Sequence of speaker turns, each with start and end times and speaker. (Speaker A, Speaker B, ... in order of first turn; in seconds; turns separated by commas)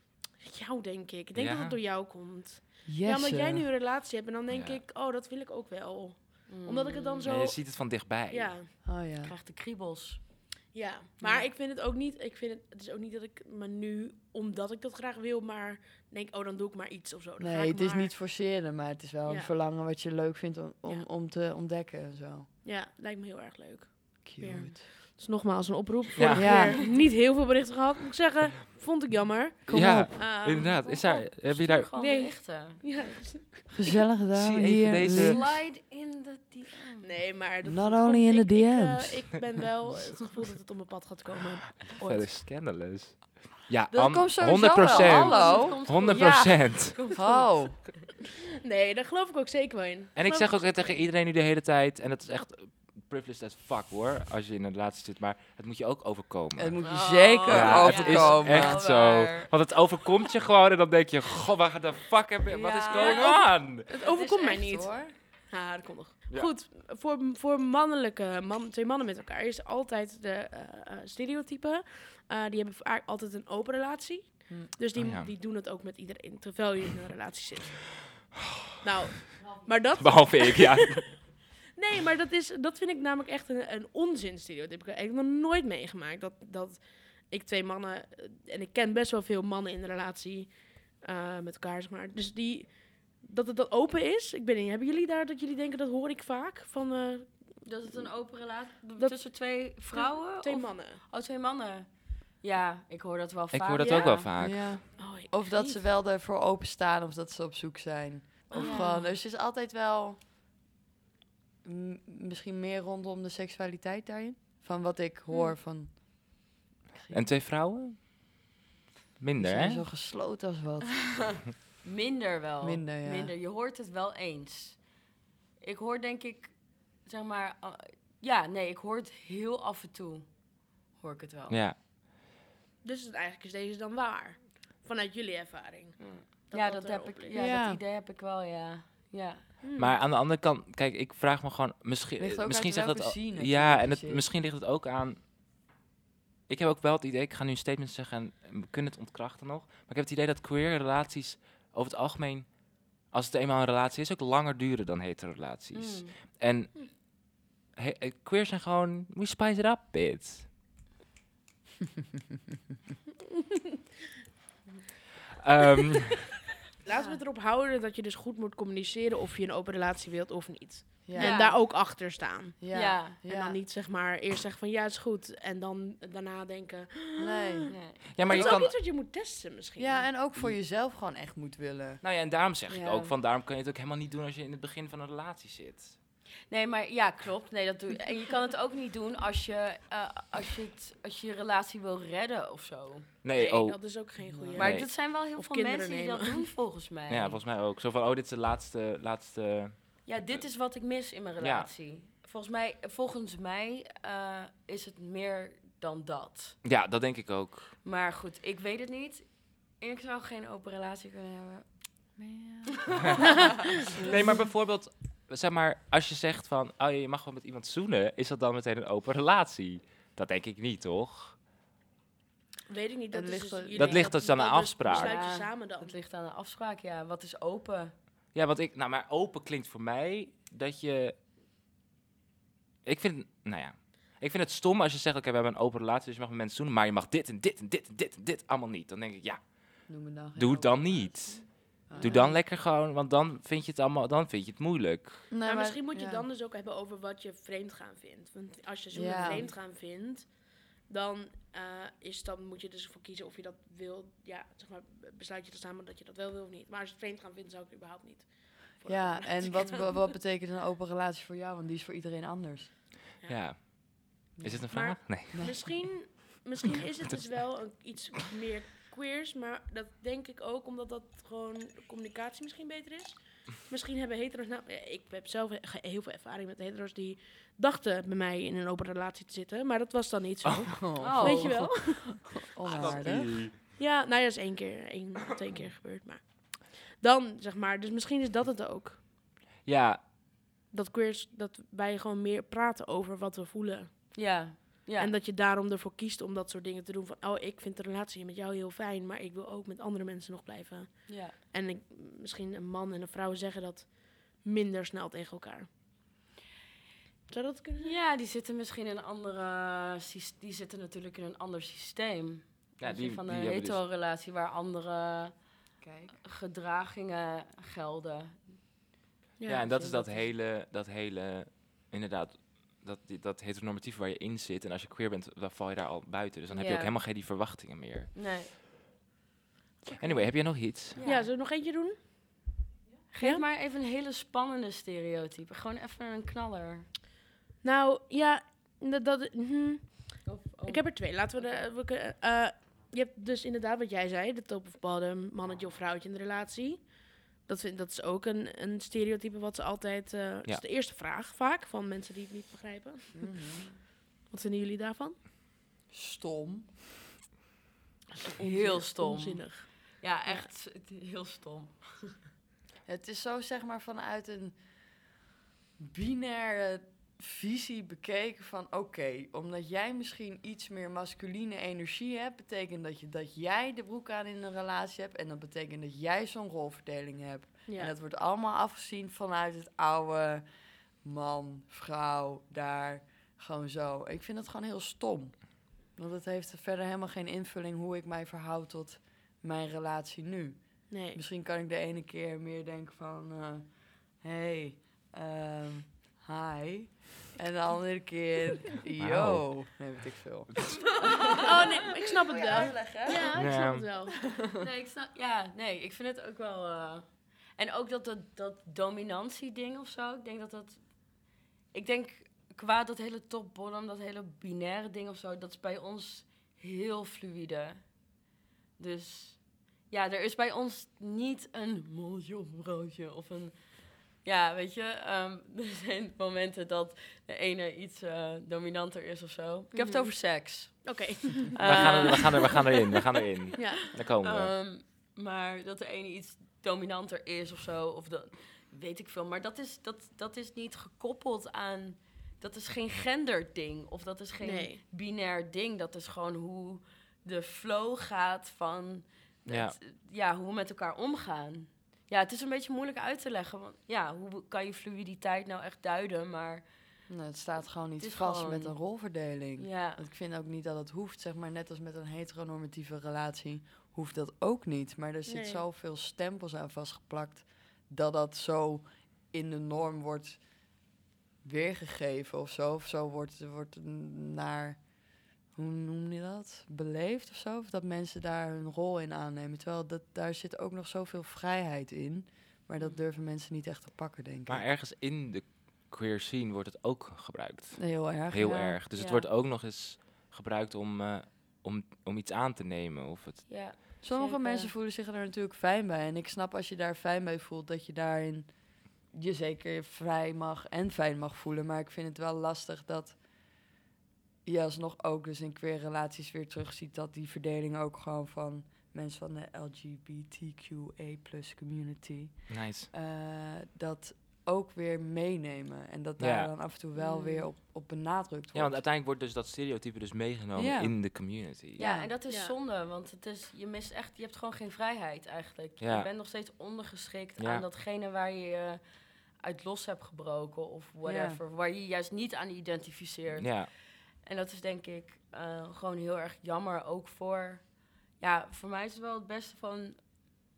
Speaker A: 0.4-8.8, Speaker B: 1.3-1.8, Speaker C: 2.9-3.6, Speaker B: 4.5-4.8, Speaker D: 6.5-7.2, Speaker B: 7.2-8.6, Speaker C: 8.8-9.3, Speaker D: 9.0-10.4, Speaker A: 10.7-18.1, Speaker D: 11.2-11.5, Speaker C: 17.4-22.5, Speaker A: 19.2-19.5, Speaker A: 22.6-31.2, Speaker C: 24.2-24.8, Speaker B: 26.1-26.7, Speaker C: 26.3-26.8, Speaker C: 29.7-30.1, Speaker B: 29.7-31.9, Speaker D: 30.6-33.1, Speaker A: 31.9-33.7, Speaker C: 33.7-35.5, Speaker B: 34.3-35.5, Speaker D: 35.0-37.2, Speaker A: 37.0-42.3, Speaker C: 37.6-39.3, Speaker B: 41.9-47.0, Speaker C: 43.9-46.3, Speaker D: 44.6-48.1, Speaker C: 47.0-47.8, Speaker A: 48.6-51.0, Speaker B: 50.1-63.9, Speaker C: 56.5-59.0, Speaker D: 56.8-59.5, Speaker D: 62.5-63.4, Speaker A: 62.9-78.0, Speaker C: 63.9-65.1, Speaker D: 63.9-64.4, Speaker B: 74.9-75.3, Speaker A: 78.8-80.8, Speaker B: 80.0-81.2, Speaker A: 81.7-98.1, Speaker D: 97.6-104.2, Speaker A: 99.0-101.0, Speaker B: 103.5-104.8, Speaker A: 103.8-104.3, Speaker C: 104.4-110.2, Speaker A: 105.0-105.3, Speaker A: 108.5-109.0, Speaker D: 108.5-109.1, Speaker C: 111.6-116.0, Speaker C: 116.9-117.3, Speaker B: 117.1-118.0, Speaker B: 119.2-119.8, Speaker C: 119.4-121.5, Speaker D: 121.8-125.0, Speaker C: 122.6-123.3, Speaker D: 125.6-131.6, Speaker B: 131.5-131.8, Speaker A: 132.8-137.3, Speaker D: 136.0-139.5, Speaker C: 137.3-137.8, Speaker A: 139.6-139.9, Speaker B: 139.8-145.2, Speaker C: 142.2-144.2, Speaker B: 146.5-160.5, Speaker D: 155.7-156.4, Speaker B: 165.4-166.2, Speaker A: 166.8-180.1, Speaker D: 166.9-167.2, Speaker C: 171.0-171.6, Speaker D: 171.2-171.6, Speaker C: 172.6-173.6, Speaker D: 172.7-173.2, Speaker C: 177.2-177.8, Speaker D: 177.7-178.6, Speaker B: 178.1-178.7, Speaker C: 179.8-182.0, Speaker B: 182.0-185.9, Speaker D: 182.7-183.1, Speaker D: 186.5-193.1, Speaker B: 193.2-194.0, Speaker A: 193.3-196.4, Speaker C: 194.2-194.6, Speaker B: 194.5-194.9, Speaker D: 194.6-197.4, Speaker B: 197.1-200.4, Speaker D: 200.0-206.6, Speaker B: 201.4-201.7, Speaker B: 206.6-207.7, Speaker D: 207.8-212.2, Speaker C: 212.2-213.3, Speaker C: 214.0-214.4, Speaker B: 214.0-221.4, Speaker A: 222.7-225.9, Speaker C: 223.1-224.1, Speaker B: 223.8-225.2, Speaker D: 224.9-227.9, Speaker B: 228.3-231.2, Speaker B: 232.8-245.3, Speaker C: 239.9-242.4, Speaker A: 241.9-242.2, Speaker C: 245.3-246.2, Speaker A: 245.4-260.0, Speaker C: 248.9-249.5, Speaker D: 249.2-249.4, Speaker C: 258.8-262.7, Speaker B: 263.2-265.6, Speaker C: 264.4-265.7, Speaker A: 264.7-282.3, Speaker C: 280.7-283.5, Speaker D: 281.0-281.7, Speaker B: 282.7-283.5, Speaker A: 282.8-289.0, Speaker B: 289.6-290.0, Speaker A: 290.7-305.7, Speaker D: 294.1-295.1, Speaker D: 301.1-301.4, Speaker A: 307.3-307.9, Speaker D: 307.8-315.5, Speaker B: 312.8-313.8, Speaker C: 315.8-316.1, Speaker D: 316.1-318.6, Speaker A: 319.4-319.8, Speaker B: 319.5-328.1, Speaker D: 319.8-320.2, Speaker D: 326.5-326.9, Speaker D: 328.1-328.5, Speaker B: 329.9-331.0, Speaker D: 330.0-330.3, Speaker D: 330.9-331.3, Speaker A: 331.0-332.0, Speaker D: 333.1-336.9, Speaker A: 337.6-353.2, Speaker D: 340.2-341.7, Speaker C: 353.1-353.8, Speaker A: 354.3-355.2, Speaker C: 355.9-356.7, Speaker A: 358.3-360.5, Speaker D: 358.4-362.2, Speaker C: 362.8-364.7, Speaker C: 365.8-401.3, Speaker A: 377.7-377.9, Speaker A: 390.9-391.2, Speaker B: 399.0-399.9, Speaker D: 400.9-403.3, Speaker A: 401.4-404.2, Speaker C: 402.5-403.2, Speaker B: 403.3-403.8, Speaker D: 404.6-418.2, Speaker D: 418.8-432.8, Speaker A: 429.7-430.1, Speaker A: 430.8-432.5, Speaker B: 431.6-434.5, Speaker D: 433.5-456.6, Speaker A: 433.6-433.8, Speaker A: 444.4-444.8, Speaker B: 449.5-449.7, Speaker C: 457.1-470.8, Speaker D: 458.0-458.9, Speaker D: 459.6-460.0, Speaker A: 465.2-465.6, Speaker C: 471.4-484.6, Speaker B: 484.5-493.5, Speaker C: 487.7-488.8, Speaker D: 488.9-489.2, Speaker D: 493.5-494.7, Speaker C: 494.0-503.7, Speaker C: 504.4-518.8, Speaker B: 512.5-512.9, Speaker B: 516.2-516.5, Speaker D: 516.9-517.5, Speaker B: 518.5-521.8, Speaker C: 520.5-521.2, Speaker C: 521.8-522.1, Speaker D: 521.8-528.8, Speaker A: 522.3-522.5, Speaker B: 525.8-526.1, Speaker B: 527.4-527.6, Speaker D: 529.4-540.0, Speaker C: 531.0-531.4, Speaker B: 533.4-533.7